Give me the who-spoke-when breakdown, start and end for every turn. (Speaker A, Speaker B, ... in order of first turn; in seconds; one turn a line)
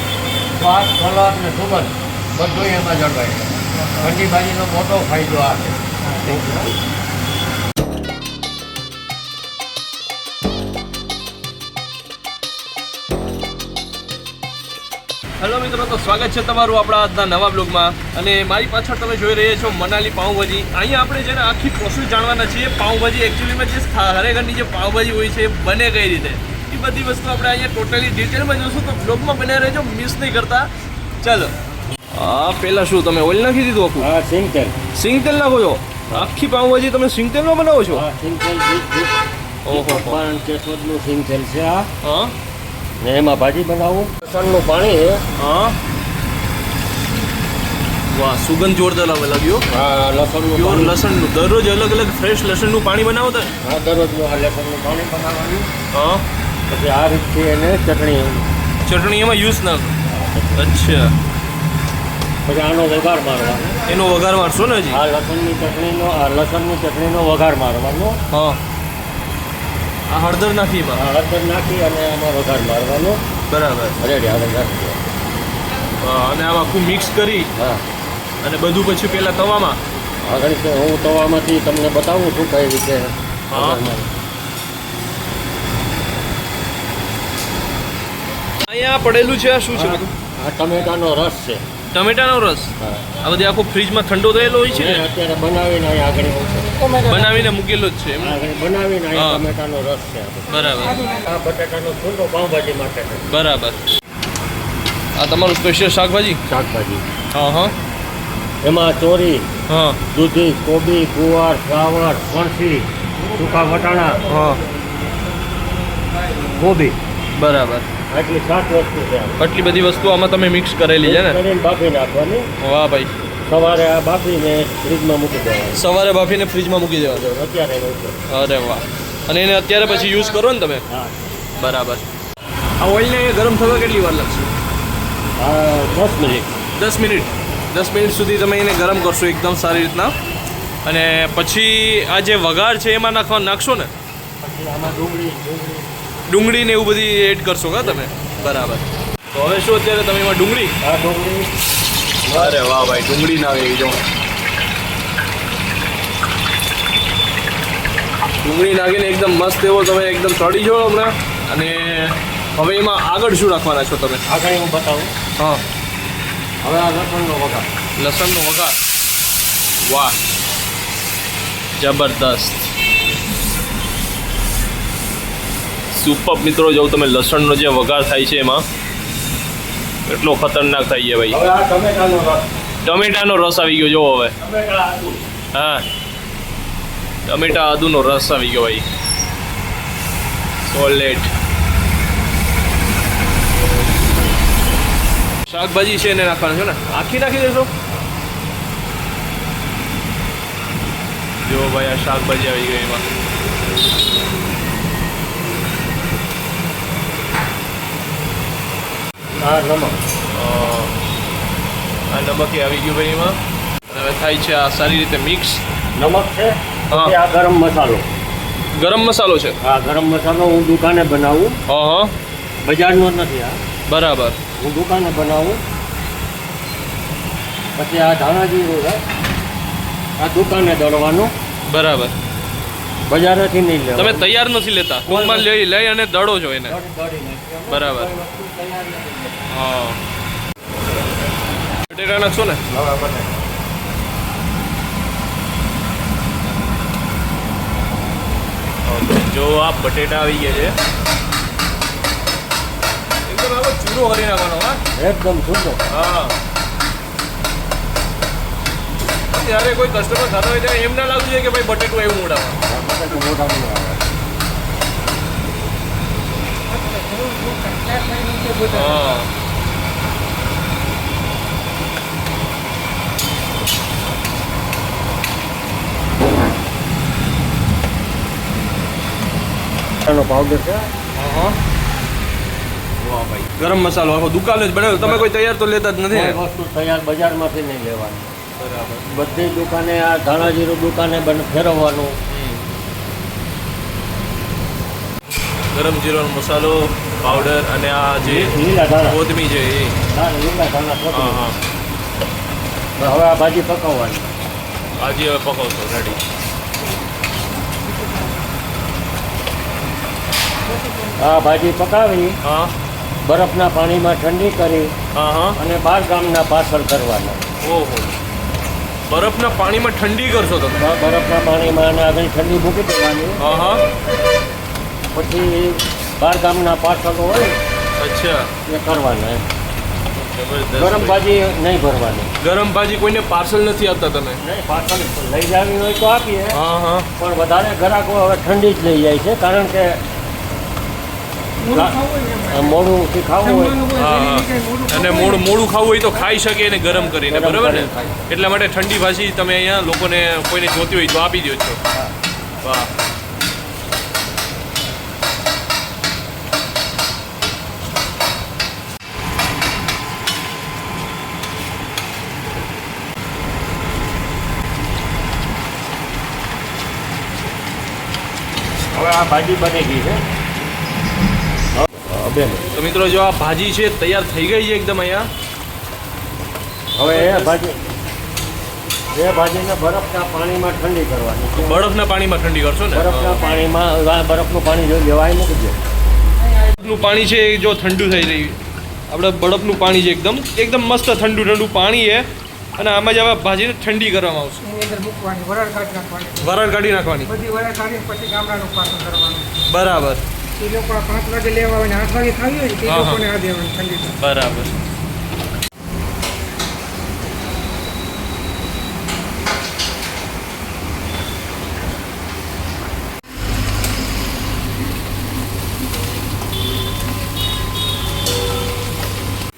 Speaker A: 0.5-6.8
Speaker B: 15.4-31.5
Speaker B: 32.1-34.1
Speaker A: 34.0-34.8
Speaker B: 34.9-38.0
Speaker A: 37.9-39.2
Speaker B: 39.7-40.2
Speaker A: 39.7-41.9
Speaker B: 42.0-42.3
Speaker A: 43.0-45.2
Speaker B: 45.4-45.8
Speaker B: 48.1-49.7
Speaker A: 49.7-51.0
Speaker B: 50.5-53.5
Speaker A: 53.6-55.7
Speaker B: 55.9-56.2
Speaker A: 56.7-58.5
Speaker B: 58.9-60.0
Speaker A: 60.1-60.7
Speaker B: 60.6-61.1
Speaker A: 62.5-63.8
Speaker B: 63.9-65.0
Speaker A: 64.9-68.2
Speaker B: 68.3-68.6
Speaker B: 70.1-71.0
Speaker A: 70.9-73.2
Speaker B: 73.5-74.0
Speaker A: 74.0-75.0
Speaker B: 76.0-77.5
Speaker B: 78.4-79.8
Speaker A: 80.3-84.1
Speaker B: 83.5-83.8
Speaker B: 88.7-90.1
Speaker A: 89.7-91.6
Speaker B: 91.9-95.0
Speaker A: 92.8-93.1
Speaker A: 94.7-97.1
Speaker B: 97.0-98.4
Speaker A: 98.2-103.3
Speaker B: 99.1-99.4
Speaker B: 100.5-101.1
Speaker B: 103.3-103.8
Speaker B: 105.2-106.4
Speaker A: 106.5-107.0
Speaker B: 107.3-107.7
Speaker A: 108.6-109.5
Speaker B: 109.7-110.0
Speaker A: 110.1-114.2
Speaker B: 114.2-114.6
Speaker A: 116.4-117.0
Speaker B: 117.4-117.9
Speaker A: 118.1-119.4
Speaker B: 119.4-121.4
Speaker A: 121.0-122.5
Speaker B: 122.6-123.1
Speaker A: 123.5-125.8
Speaker B: 125.8-127.3
Speaker A: 127.1-128.2
Speaker B: 128.3-130.8
Speaker A: 130.9-131.3
Speaker B: 131.6-132.1
Speaker B: 132.8-134.5
Speaker A: 135.4-136.5
Speaker B: 136.8-140.1
Speaker B: 140.8-143.9
Speaker A: 144.4-145.9
Speaker B: 146.3-150.8
Speaker A: 150.8-151.5
Speaker A: 152.2-152.6
Speaker B: 152.3-154.0
Speaker B: 158.4-164.2
Speaker A: 164.3-165.1
Speaker B: 165.4-165.6
Speaker A: 166.6-167.7
Speaker B: 168.0-168.8
Speaker B: 169.8-170.2
Speaker B: 171.8-172.7
Speaker B: 175.9-178.7
Speaker B: 180.1-181.4
Speaker A: 181.3-182.4
Speaker B: 182.8-184.3
Speaker A: 184.4-185.2
Speaker B: 185.5-185.9
Speaker B: 187.3-188.8
Speaker B: 190.6-191.3
Speaker B: 195.5-197.7
Speaker B: 201.4-203.1
Speaker A: 209.4-210.0
Speaker B: 210.3-210.9
Speaker B: 212.1-213.4
Speaker B: 213.9-215.6
Speaker A: 216.0-218.0
Speaker B: 218.7-219.6
Speaker A: 219.6-221.6
Speaker B: 221.7-222.1
Speaker A: 222.7-223.6
Speaker B: 223.9-224.4
Speaker A: 224.6-225.6
Speaker A: 227.8-229.0
Speaker A: 230.2-231.3
Speaker B: 231.7-232.2
Speaker A: 233.1-234.3
Speaker B: 233.9-236.8
Speaker A: 235.1-235.5
Speaker A: 236.7-239.4
Speaker B: 237.7-238.1
Speaker B: 239.5-240.0
Speaker B: 241.9-242.6
Speaker A: 242.7-243.3
Speaker B: 248.8-250.8
Speaker B: 253.3-254.8
Speaker A: 255.0-255.8
Speaker B: 255.9-256.4
Speaker B: 259.3-262.6
Speaker A: 262.6-264.0
Speaker C: 266.7-269.0
Speaker B: 268.7-269.3
Speaker A: 280.0-280.9
Speaker B: 281.1-281.6
Speaker B: 283.0-286.4
Speaker A: 285.0-285.3
Speaker A: 286.1-288.3
Speaker B: 288.6-289.1
Speaker A: 289.1-292.1
Speaker B: 292.3-292.7
Speaker B: 295.7-300.0
Speaker A: 298.2-299.2
Speaker A: 300.1-301.4
Speaker B: 301.1-301.6
Speaker A: 303.0-304.3
Speaker B: 305.0-306.2
Speaker A: 311.2-312.4
Speaker B: 312.4-312.7
Speaker A: 313.2-314.9
Speaker B: 315.1-315.6
Speaker A: 315.6-317.5
Speaker B: 317.6-318.1
Speaker B: 319.1-320.8
Speaker A: 320.8-323.4
Speaker B: 323.4-323.8
Speaker A: 325.1-327.6
Speaker B: 328.0-328.5
Speaker A: 328.7-329.4
Speaker B: 330.1-331.2
Speaker A: 330.8-332.3
Speaker B: 332.4-334.4
Speaker A: 334.4-336.6
Speaker B: 336.5-337.1
Speaker A: 337.2-340.0
Speaker C: 341.6-342.8
Speaker A: 341.7-342.0
Speaker A: 342.5-343.8
Speaker C: 343.4-345.5
Speaker B: 343.9-351.8
Speaker A: 347.3-348.3
Speaker B: 352.6-352.9
Speaker A: 368.9-370.2
Speaker A: 371.8-372.7
Speaker B: 372.7-375.3
Speaker A: 377.0-377.8
Speaker B: 377.1-377.6
Speaker A: 379.1-381.8
Speaker B: 381.6-383.5
Speaker A: 382.9-385.8
Speaker B: 386.8-394.6
Speaker C: 394.6-396.6
Speaker B: 396.4-397.3
Speaker C: 397.3-399.5
Speaker B: 399.7-400.2
Speaker C: 400.6-404.2
Speaker B: 402.9-403.3
Speaker B: 404.2-404.8